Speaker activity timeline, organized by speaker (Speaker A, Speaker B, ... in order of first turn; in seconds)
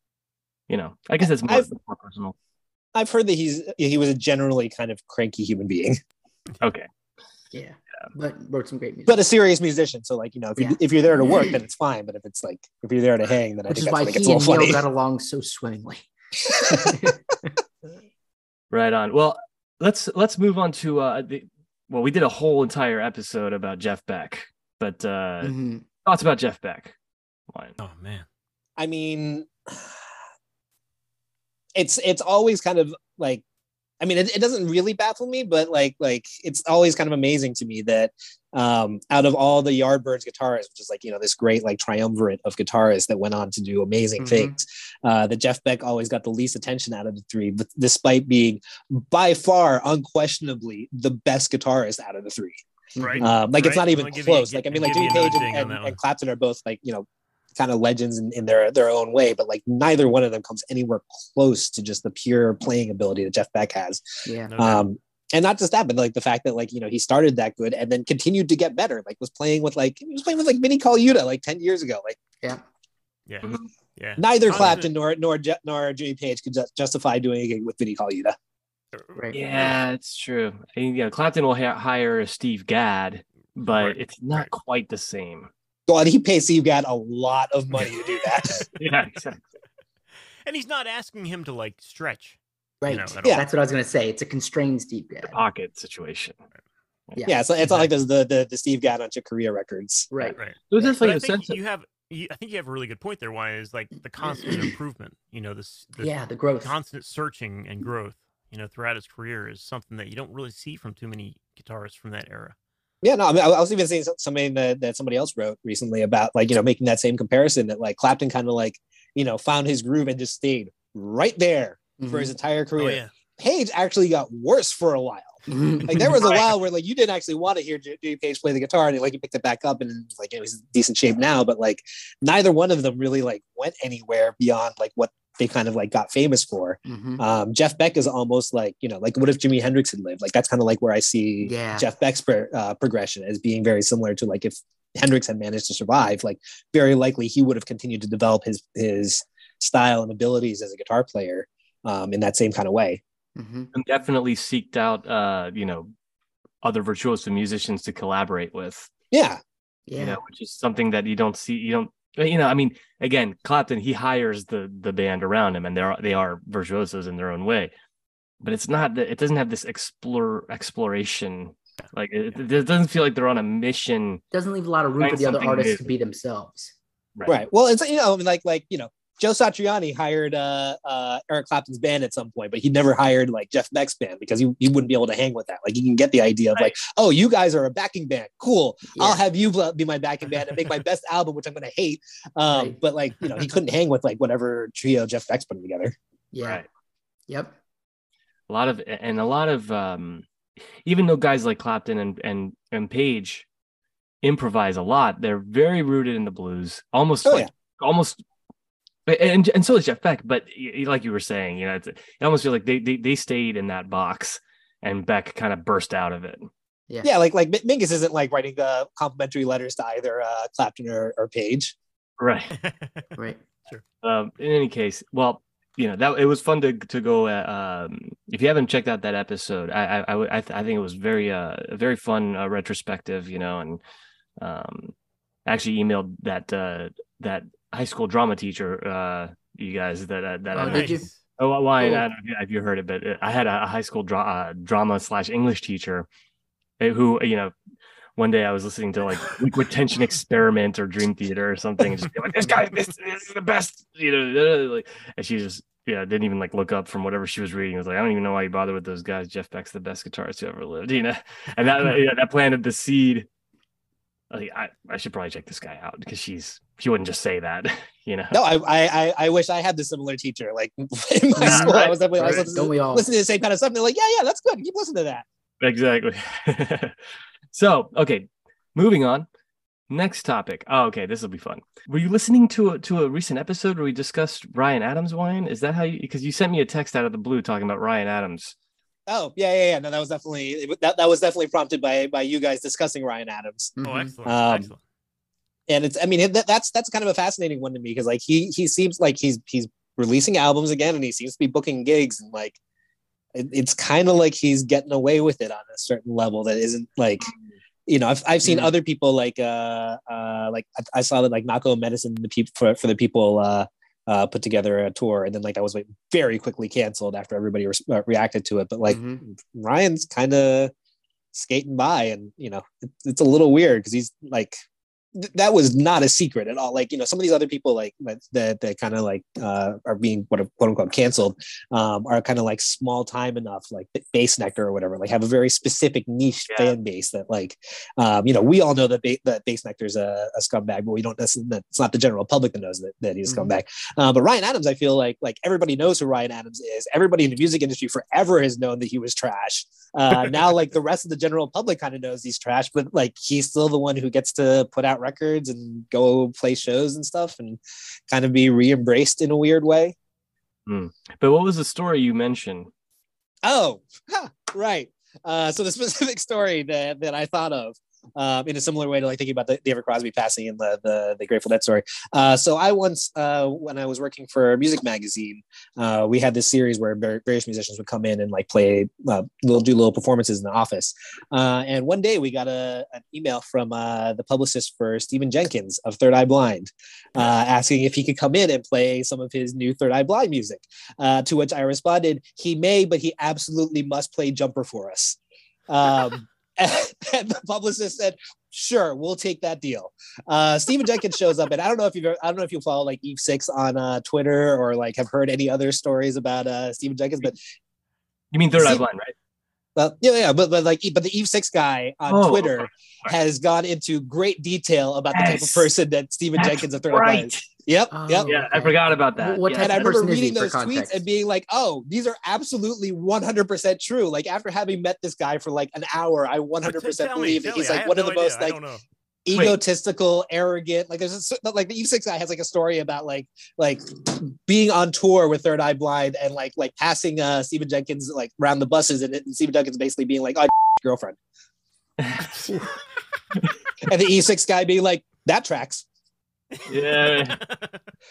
Speaker A: 0.7-2.4, 6.6-6.9, 18.7-26.9, 27.5-27.8, 79.3-85.5, 88.8-89.5, 95.3-96.4, 100.7-101.6, 153.7-155.9, 156.6-158.9, 160.0-167.7, 168.4-174.2, 175.0-175.8, 177.2-177.4, 196.4-196.7, 198.5-200.3, 200.8-203.5, 204.2-208.2, 209.1-216.5, 222.2-222.6, 224.0-233.8, 234.4-234.9, 235.5-246.1, 246.8-247.5, 248.2-263.3, 264.3-268.4, 271.4-272.5, 275.6-277.0, 277.5-279.3, 279.9-288.6, 336.5-336.8, 360.7-362.7, 408.3-409.1, 412.1-413.1, 415.1-415.7, 416.4-417.5, 418.3-420.0, 429.3-429.6, 442.0-442.5, 446.7-447.4
Speaker B: 1.2-1.7, 3.0-6.0, 9.1-14.8, 28.8-29.5, 31.8-33.4, 34.0-52.6, 53.2-72.2, 74.2-78.4, 85.9-88.7, 97.2-100.1, 113.0-153.0, 159.1-159.4, 177.3-195.9, 207.2-207.5, 217.0-221.8, 268.3-275.2, 289.1-294.7, 295.7-302.6, 303.4-307.3, 307.9-320.7, 321.3-324.6, 325.2-359.9, 363.4-395.2, 395.7-407.4, 408.6-408.8, 409.8-418.4, 419.6-428.6, 429.3-441.2, 443.9-445.9
Speaker C: 7.5-9.2, 10.6-11.4, 13.7-16.1, 16.6-17.5, 25.4-25.8, 44.2-44.6, 53.0-53.3, 64.2-64.5, 79.2-79.4, 92.8-95.4, 97.2-97.5, 100.1-101.0, 104.4-104.7, 106.0-106.7, 122.0-122.3, 125.5-126.2, 136.9-137.2, 141.4-141.9, 153.4-153.7, 159.9-160.2, 174.3-176.8, 188.9-189.2, 192.5-192.8, 196.3-196.6, 197.3-197.6, 223.2-223.4, 240.5-241.1, 271.4-273.1, 293.8-294.1, 308.4-308.7, 318.9-319.2, 343.3-343.5, 417.9-421.0
Speaker D: 27.8-28.2, 53.0-56.0, 64.5-64.9, 73.3-74.9, 79.0-79.7, 83.7-84.5, 90.5-93.5, 100.4-112.6, 122.8-123.1, 126.2-126.5, 222.6-223.0, 240.6-241.1, 293.8-294.8, 426.6-428.8, 446.6-447.7